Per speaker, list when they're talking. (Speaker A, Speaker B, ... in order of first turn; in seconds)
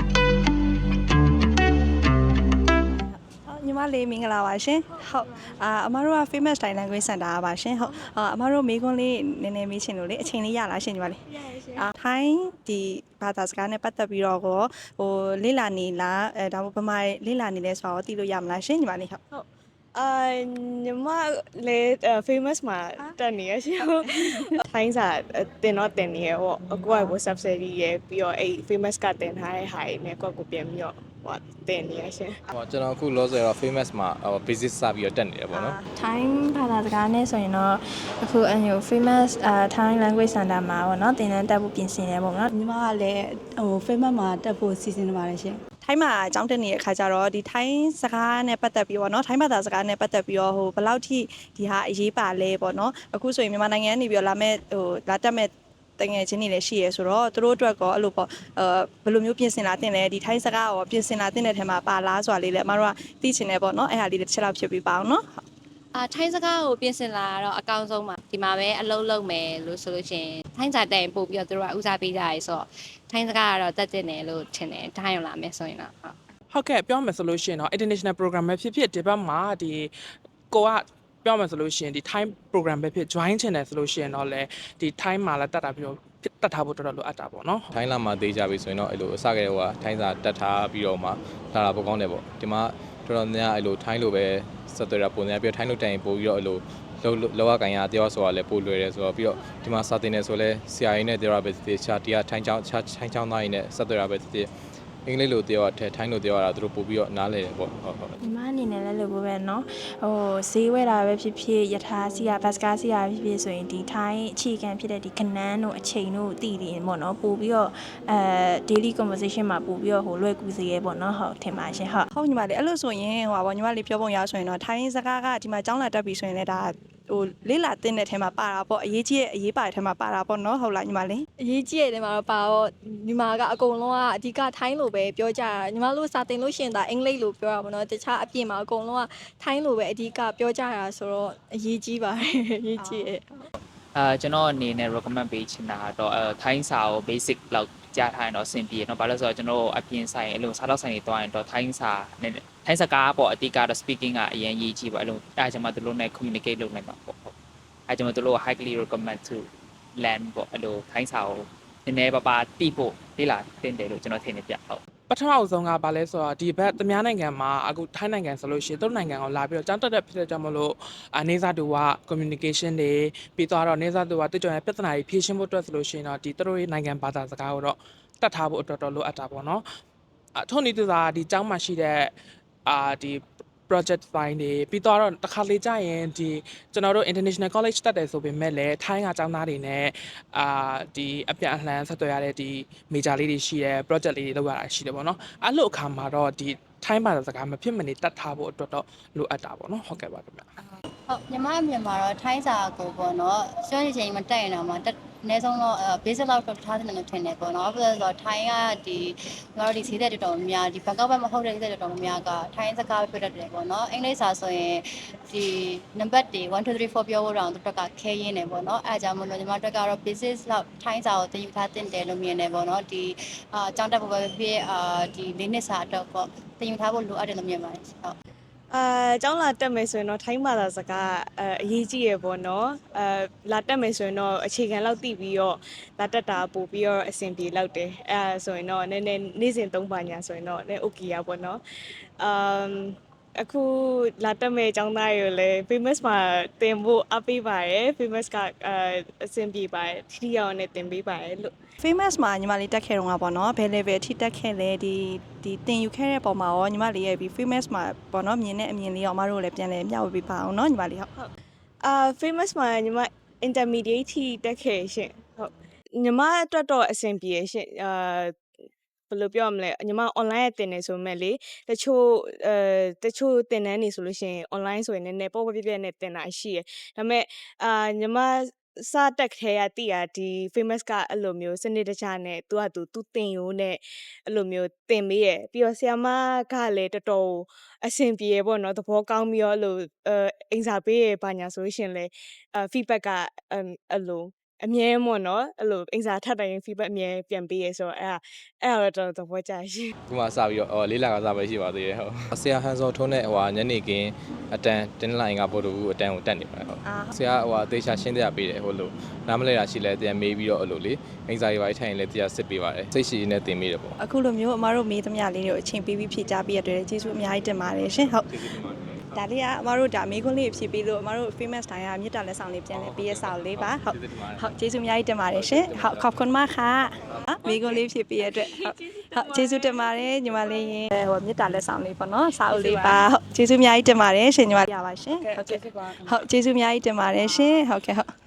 Speaker A: 3.2-19.2, 35.5-35.9, 45.8-65.4, 122.1-131.2, 251.8-261.1, 306.9-307.1, 314.0-318.4, 319.1-338.1
Speaker B: 19.3-32.4, 228.7-241.6, 242.2-251.5, 261.8-268.4, 269.1-299.9
Speaker C: 26.7-27.1, 42.5-45.6
Speaker D: 32.5-35.8, 87.7-104.5, 105.0-108.2, 300.1-313.9, 322.8-324.3
Speaker E: 36.0-42.4, 108.2-122.0
Speaker F: 65.9-76.2
Speaker G: 76.5-79.9, 80.5-87.7, 165.1-179.6, 180.3-182.1, 182.7-200.5, 335.2-336.2
Speaker H: 131.4-143.4
Speaker I: 143.9-157.3, 157.9-164.8
Speaker J: 201.2-228.1